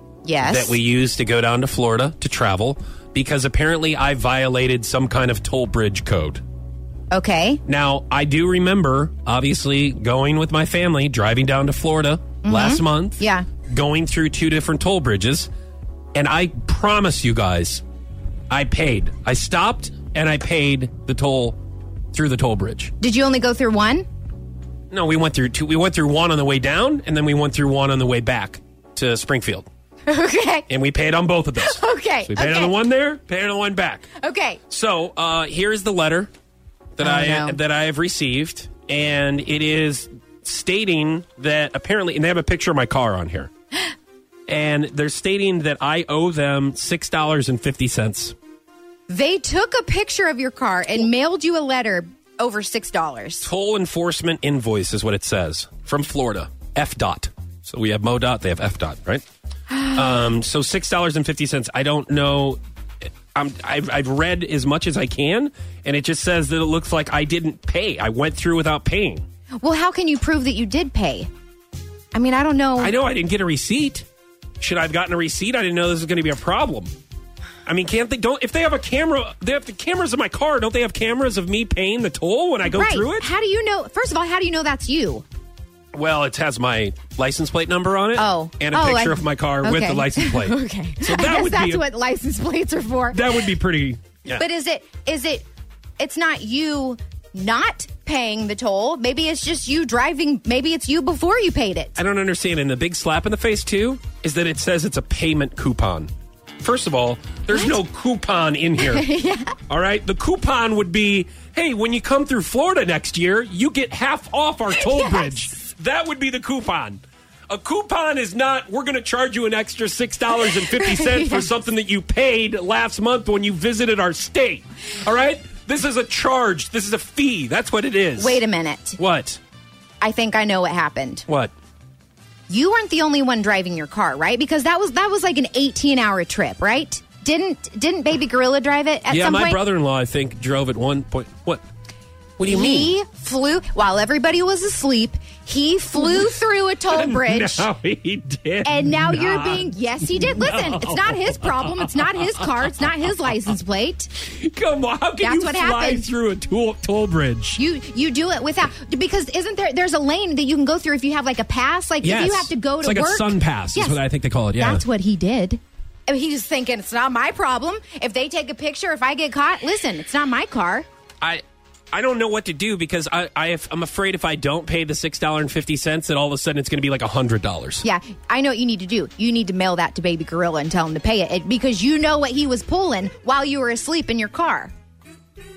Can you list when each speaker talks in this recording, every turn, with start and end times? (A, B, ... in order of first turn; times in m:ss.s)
0:00.2-0:00.8 A
0:00.4-0:06.4 B
0:07.1-0:07.6 A
0:07.6-0:15.5 B
0:12.4-0:13.4 A
0:16.1-0:17.8 B
0:18.5-0:21.6 B
0:22.1-0:22.9 B
0:23.0-0:24.0 A
0:24.9-0:29.7 B
0:30.1-0:30.7 A
0:30.7-0:34.1 B
0:31.6-0:32.7 A
0:34.2-0:34.6 A
0:34.7-0:36.3 B
0:37.0-0:43.5 B
0:37.0-0:37.6 A
0:44.5-0:48.3 B
0:49.1-0:53.5 A
0:53.4-0:59.2 B
0:59.8-1:02.6 B
1:03.3-1:09.2 B
1:09.6-1:11.3 A
1:12.1-1:12.9 A
1:12.8-1:14.0 B
1:14.6-1:16.9 B
1:17.6-1:23.3 B
1:22.6-1:25.2 A
1:25.9-1:31.8 B
1:28.2-1:33.4 A
1:33.1-1:34.4 B
1:34.3-1:35.4 A
1:36.0-1:42.0 A
1:42.0-1:46.1 B
1:46.6-1:49.1 B
1:47.5-1:47.8 A
1:48.8-1:49.6 A
1:49.7-2:08.4 B
1:54.8-1:55.4 A
2:00.4-2:01.5 A
2:08.2-2:09.0 A
2:09.0-2:09.4 B
2:10.0-2:11.2 A
2:11.3-2:11.5 B
2:12.5-2:19.6 A
2:19.1-2:21.6 B
2:22.4-2:22.9 B
2:22.4-2:27.7 A
2:26.9-2:32.8 B
2:28.6-2:34.1 A
2:34.2-2:37.6 B
2:35.2-2:36.1 A
2:37.6-2:44.0 A
2:42.0-2:44.8 B
2:44.6-2:50.8 A
2:51.2-2:57.8 B
2:57.8-3:04.7 A